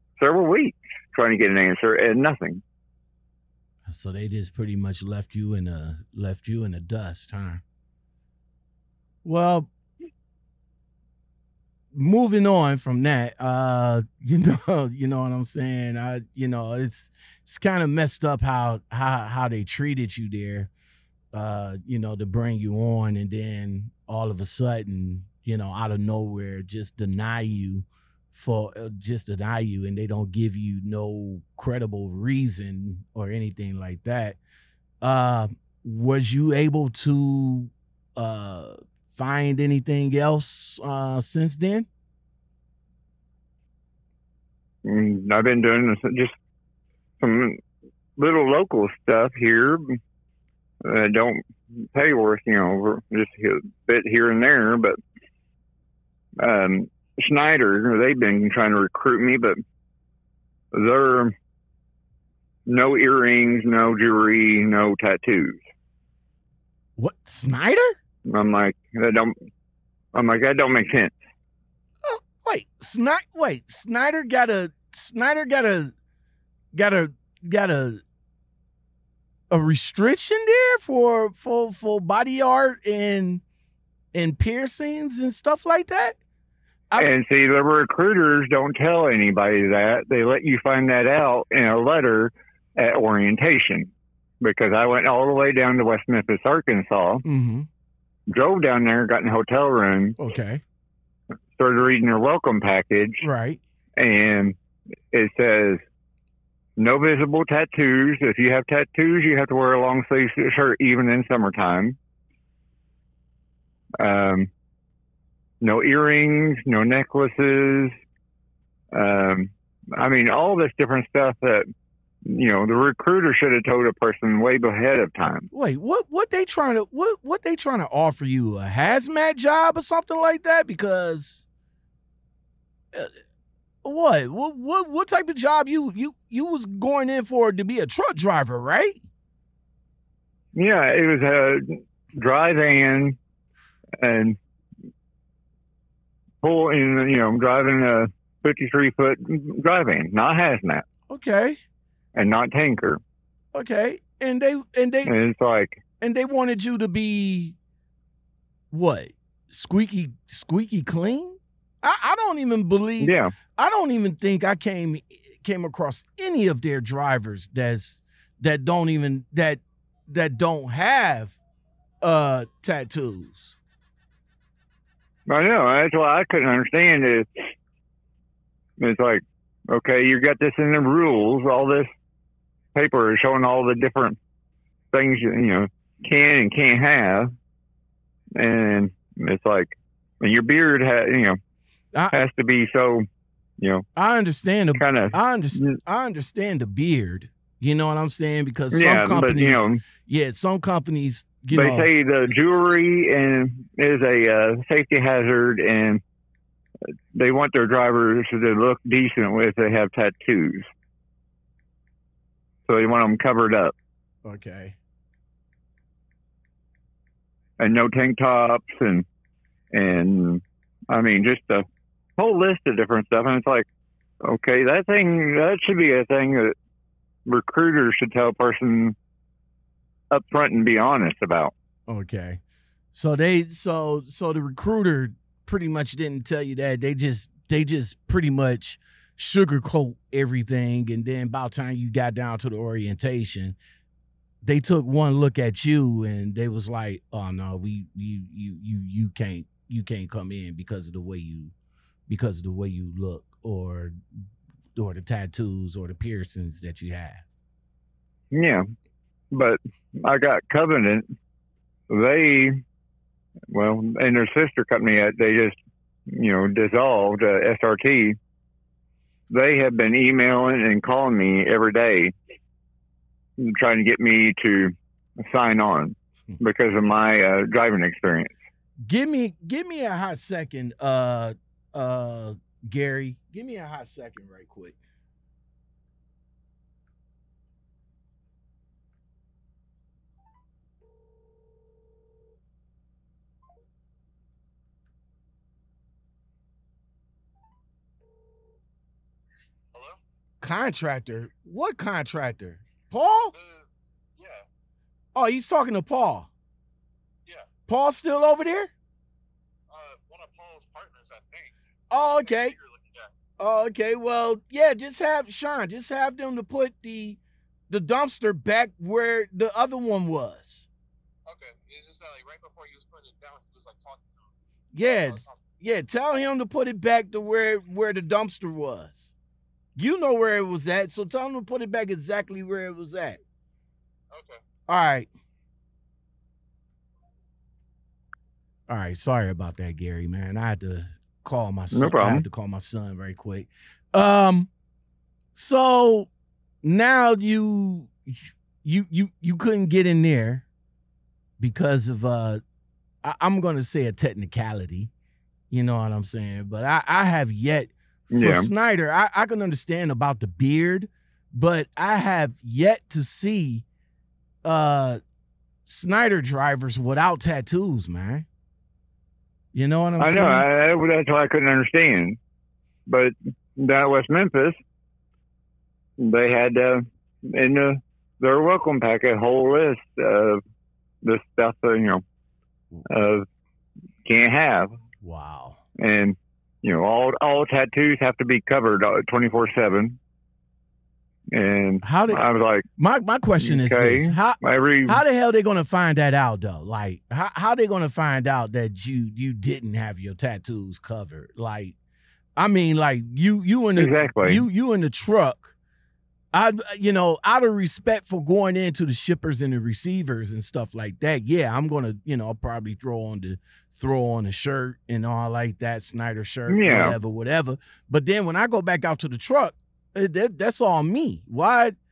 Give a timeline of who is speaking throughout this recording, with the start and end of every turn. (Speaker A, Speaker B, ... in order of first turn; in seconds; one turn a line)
Speaker A: 0.2-2.6
Speaker B: 3.9-7.6
Speaker B: 9.2-9.7
Speaker B: 11.9-20.7
Speaker B: 21.3-34.4
Speaker B: 35.0-41.9
Speaker A: 44.8-46.3
Speaker A: 47.2-47.6
Speaker A: 48.2-49.8
Speaker A: 50.8-51.4
Speaker A: 51.9-55.0
Speaker A: 56.4-59.6
Speaker A: 60.7-61.3
Speaker A: 62.7-65.6
Speaker B: 67.0-68.0
Speaker A: 68.3-69.3
Speaker A: 70.1-71.1
Speaker B: 72.0-75.9
Speaker B: 76.7-78.0
Speaker B: 79.5-83.4
Speaker B: 84.1-86.2
Speaker A: 87.0-97.2
Speaker B: 97.2-97.7
Speaker A: 98.3-100.2
Speaker B: 100.2-100.6
Speaker A: 101.6-103.2
Speaker B: 103.2-103.6
Speaker A: 104.0-104.5
Speaker A: 105.1-105.8
Speaker A: 106.8-112.0
Speaker A: 114.0-114.5
Speaker A: 115.6-118.0
Speaker A: 118.9-121.7
Speaker A: 122.2-125.5
Speaker B: 125.5-131.4
Speaker B: 133.8-139.0
Speaker A: 140.5-143.2
Speaker A: 144.0-144.4
Speaker A: 146.4-150.8
Speaker B: 151.1-151.6
Speaker A: 152.1-153.0
Speaker B: 153.5-155.1
Speaker A: 155.0-155.8
Speaker B: 156.0-157.6
Speaker B: 158.7-171.4
Speaker A: 163.0-163.3
Speaker B: 172.0-173.6
Speaker A: 175.3-177.3
Speaker A: 178.8-181.9
Speaker A: 182.7-184.2
Speaker A: 184.9-187.3
Speaker A: 188.4-191.4
Speaker A: 192.1-193.0
Speaker A: 193.6-193.8
Speaker B: 193.9-201.9
Speaker A: 194.8-195.8
Speaker A: 198.7-199.8
Speaker A: 201.5-206.0
Speaker A: 207.1-210.7
Speaker A: 212.7-213.7
Speaker B: 214.2-214.8
Speaker A: 217.6-219.1
Speaker A: 219.7-221.7
Speaker A: 222.2-223.7
Speaker A: 224.2-226.5
Speaker A: 227.2-228.9
Speaker A: 230.1-231.5
Speaker B: 231.9-232.4
Speaker B: 232.9-243.6
Speaker B: 244.4-251.5
Speaker B: 252.1-254.0
Speaker B: 254.7-257.3
Speaker A: 258.3-258.6
Speaker A: 259.3-261.0
Speaker A: 261.9-262.6
Speaker A: 263.5-265.6
Speaker A: 266.1-268.2
Speaker A: 269.3-272.1
Speaker A: 273.4-278.3
Speaker B: 278.9-284.8
Speaker B: 300.4-303.3
Speaker C: 303.3-304.4
Speaker B: 305.1-306.3
Speaker B: 307.7-308.7
Speaker C: 309.7-311.6
Speaker B: 311.9-312.6
Speaker C: 312.2-313.1
Speaker B: 313.4-317.2
Speaker B: 317.7-320.7
Speaker C: 321.3-324.3
Speaker B: 324.7-329.1
Speaker C: 324.8-325.3
Speaker B: 329.8-333.2
Speaker C: 334.1-334.4
Speaker B: 334.7-335.1
Speaker B: 338.7-344.5
Speaker A: 341.7-342.2
Speaker B: 345.3-346.1
Speaker B: 346.6-350.4
Speaker B: 351.4-352.4
Speaker B: 353.0-354.9
Speaker B: 355.5-363.6
Speaker A: 358.1-358.5
Speaker B: 364.4-365.0
Speaker B: 365.6-368.2
Speaker B: 369.5-370.5
Speaker A: 370.0-372.2
Speaker A: 372.9-374.6
Speaker A: 376.0-380.4
Speaker A: 381.0-382.0
Speaker A: 382.9-383.2
Speaker A: 384.0-384.7
Speaker B: 385.0-385.6
Speaker A: 385.8-390.0
Speaker A: 391.3-392.6
Speaker B: 391.8-392.2
Speaker B: 392.8-401.8
Speaker A: 393.4-395.0
Speaker B: 402.4-405.5
Speaker A: 403.8-404.4
Speaker B: 406.3-421.8
Speaker A: 416.5-416.9